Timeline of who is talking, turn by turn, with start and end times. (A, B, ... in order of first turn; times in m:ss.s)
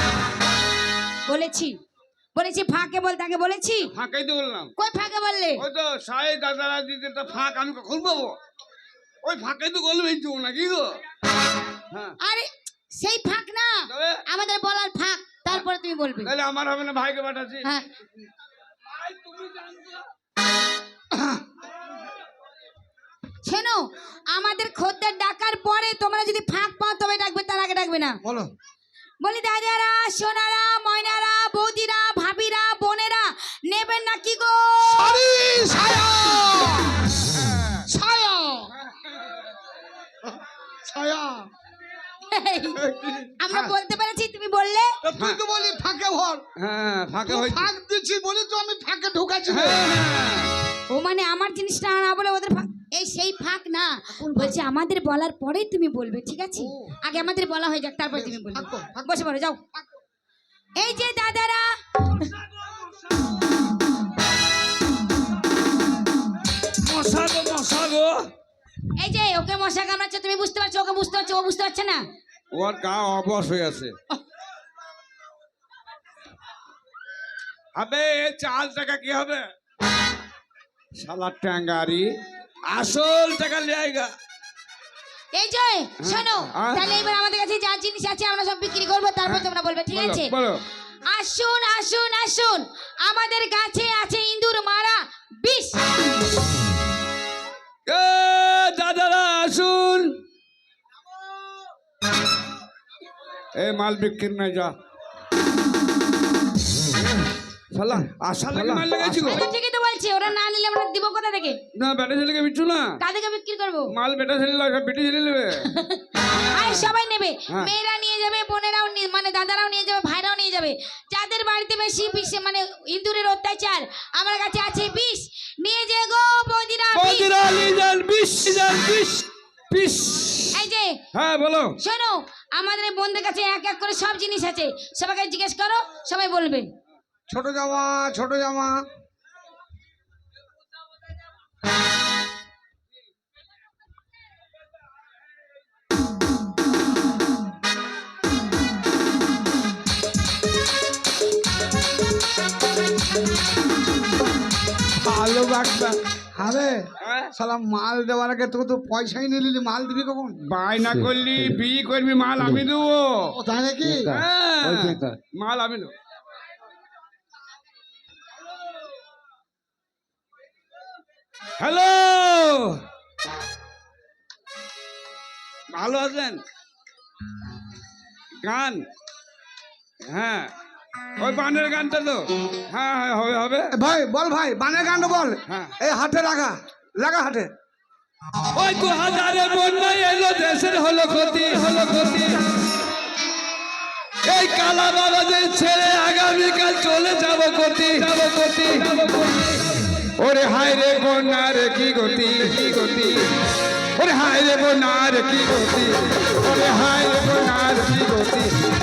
0:01.3-0:01.8 A
0:02.3-0:03.9 A
0:03.9-0:04.7 B
0:04.8-0:05.6 A
0:05.6-0:08.4 B
0:09.2-0:11.0 B
0:12.2-0:16.3 A
0:13.9-0:14.2 B
0:16.2-0:17.6 B
0:18.9-0:20.0 B
0:21.1-0:21.4 C
0:23.4-0:28.2 A
0:28.2-0:28.5 C
0:29.2-0:35.2 A
0:34.8-0:37.2 C
0:37.4-0:37.8 B
0:37.8-0:38.7 C
0:40.2-0:41.5 C
0:42.3-0:42.8 A
0:42.8-0:43.7 B
0:43.4-0:45.0 A
0:45.0-0:46.4 C
0:46.6-0:47.7 B
0:47.2-0:49.8 C
0:49.5-0:50.5 B
0:50.9-0:59.6 A
0:54.1-0:54.6 C
0:56.6-0:56.9 C
0:58.1-0:59.1 C
1:00.8-1:02.3 A
1:06.8-1:08.2 B
1:09.0-1:12.0 A
1:12.5-1:13.9 B
1:17.8-1:19.4 B
1:21.0-1:22.1 B
1:22.7-1:24.1 B
1:25.3-1:30.3 A
1:26.0-1:26.8 B
1:29.2-1:30.6 B
1:31.1-1:35.8 A
1:37.9-1:40.2 B
1:43.5-1:44.7 B
1:47.7-1:49.4 B
1:48.6-1:49.2 C
1:49.0-1:51.6 A
1:51.8-1:53.0 B
1:53.0-1:53.9 A
1:53.9-1:55.7 B
1:55.7-2:07.3 A
1:56.4-1:56.9 B
2:06.9-2:10.6 B
2:10.5-2:11.0 A
2:11.1-2:11.8 B
2:11.8-2:16.7 A
2:17.3-2:18.8 C
2:35.0-2:35.9 B
2:36.4-2:36.8 C
2:37.0-2:37.3 B
2:37.3-2:40.4 C
2:40.5-2:43.4 B
2:43.4-2:44.2 C
2:43.9-2:45.9 B
2:51.6-2:52.8 B
2:55.7-2:56.4 B
2:58.4-2:58.8 B
3:00.0-3:00.5 B
3:01.2-3:03.7 B
3:03.7-3:07.5 C
3:05.5-3:05.7 B
3:08.5-3:12.4 B
3:14.2-3:23.3 B
3:24.0-3:28.5 B